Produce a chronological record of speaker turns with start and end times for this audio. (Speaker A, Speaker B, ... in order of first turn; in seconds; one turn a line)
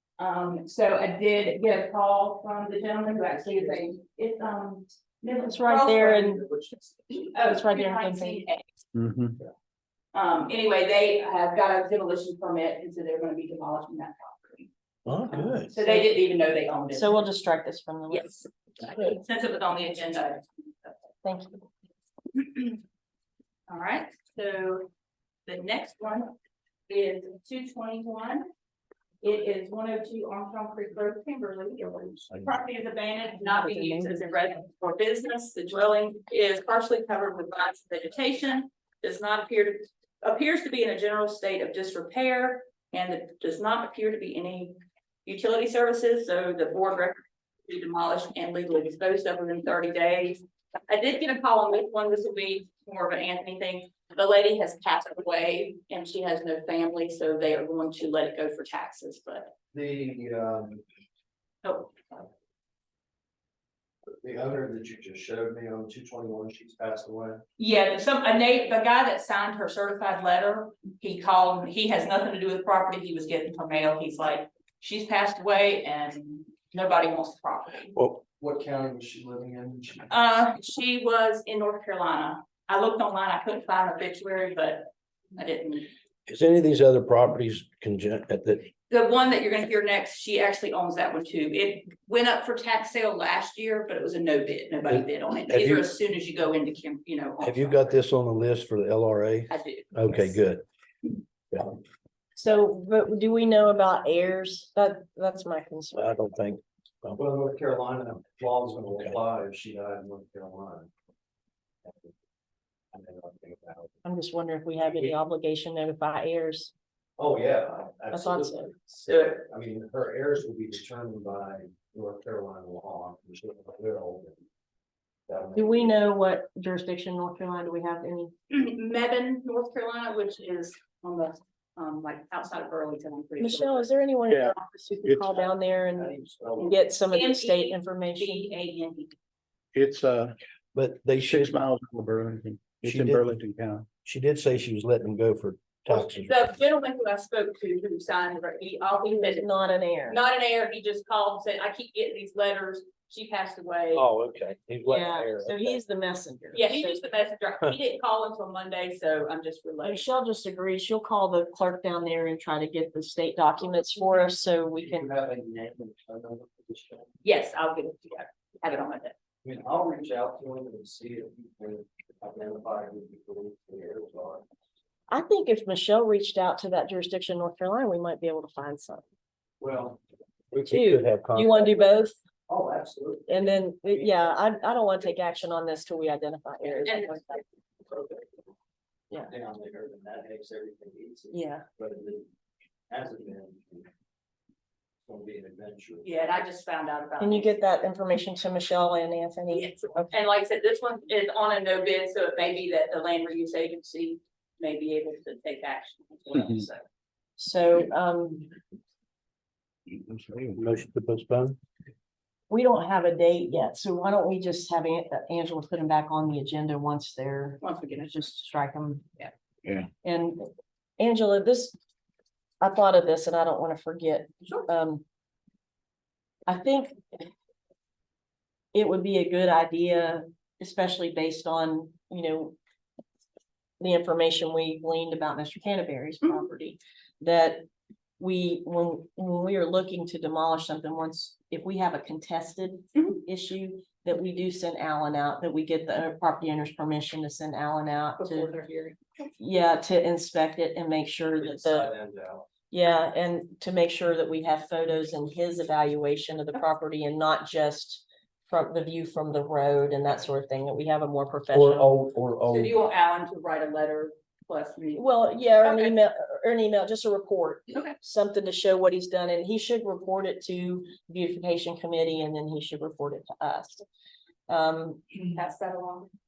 Speaker A: 0.2-8.8
Speaker B: 5.5-6.4
Speaker B: 7.5-8.4
Speaker C: 8.9-9.4
Speaker A: 10.1-14.7
Speaker D: 15.1-15.7
Speaker A: 15.3-17.2
Speaker B: 15.7-16.1
Speaker B: 16.9-18.4
Speaker A: 18.1-21.0
Speaker B: 21.2-21.6
Speaker A: 22.3-22.8
Speaker A: 23.7-24.9
Speaker A: 25.4-26.3
Speaker A: 26.9-28.5
Speaker A: 29.2-59.5
Speaker B: 33.5-34.4
Speaker E: 59.7-60.8
Speaker A: 61.6-62.2
Speaker E: 64.2-67.4
Speaker A: 67.6-78.0
Speaker E: 78.4-80.1
Speaker A: 80.1-85.9
Speaker D: 86.3-88.7
Speaker A: 88.9-98.0
Speaker D: 94.9-95.8
Speaker D: 97.4-100.6
Speaker A: 99.5-100.3
Speaker B: 102.3-106.2
Speaker D: 105.9-107.2
Speaker E: 107.2-110.9
Speaker E: 111.8-112.1
Speaker E: 112.9-113.9
Speaker B: 114.0-116.7
Speaker E: 117.2-124.4
Speaker B: 118.1-118.7
Speaker A: 119.0-119.3
Speaker E: 125.3-126.0
Speaker B: 125.5-128.3
Speaker A: 128.5-133.9
Speaker B: 133.4-138.4
Speaker C: 134.3-135.4
Speaker E: 135.9-136.8
Speaker A: 136.6-139.1
Speaker C: 139.7-140.3
Speaker D: 140.7-141.4
Speaker C: 141.1-143.9
Speaker D: 142.8-143.3
Speaker D: 144.0-146.3
Speaker A: 145.9-149.5
Speaker B: 149.1-150.2
Speaker A: 150.1-154.1
Speaker D: 153.9-155.8
Speaker B: 154.8-157.0
Speaker A: 156.5-160.1
Speaker B: 159.8-165.1
Speaker E: 164.8-167.1
Speaker A: 167.2-169.1
Speaker E: 169.4-174.4
Speaker B: 175.1-179.0
Speaker E: 179.6-180.0
Speaker D: 180.5-181.8
Speaker B: 180.7-182.2
Speaker E: 182.5-184.3
Speaker B: 183.3-187.2
Speaker A: 186.8-187.4
Speaker E: 187.8-188.4
Speaker E: 189.1-192.2
Speaker B: 191.3-191.6
Speaker E: 192.9-193.9
Speaker E: 195.0-196.1
Speaker A: 196.0-197.6
Speaker B: 197.2-200.1
Speaker A: 199.5-206.8
Speaker B: 207.4-208.5
Speaker C: 210.1-210.5
Speaker D: 210.5-211.6
Speaker B: 212.5-219.0
Speaker A: 217.6-218.1
Speaker B: 220.0-221.8
Speaker B: 222.6-225.0
Speaker B: 226.5-227.2
Speaker B: 228.7-232.6
Speaker B: 233.8-237.6
Speaker B: 238.2-248.5
Speaker A: 242.9-243.2
Speaker A: 248.2-249.3
Speaker B: 249.4-251.9
Speaker E: 251.4-252.5
Speaker B: 252.7-261.9
Speaker D: 261.5-262.7
Speaker A: 262.5-265.1
Speaker B: 264.9-273.8
Speaker A: 265.6-265.9
Speaker B: 274.5-275.3
Speaker A: 275.3-276.1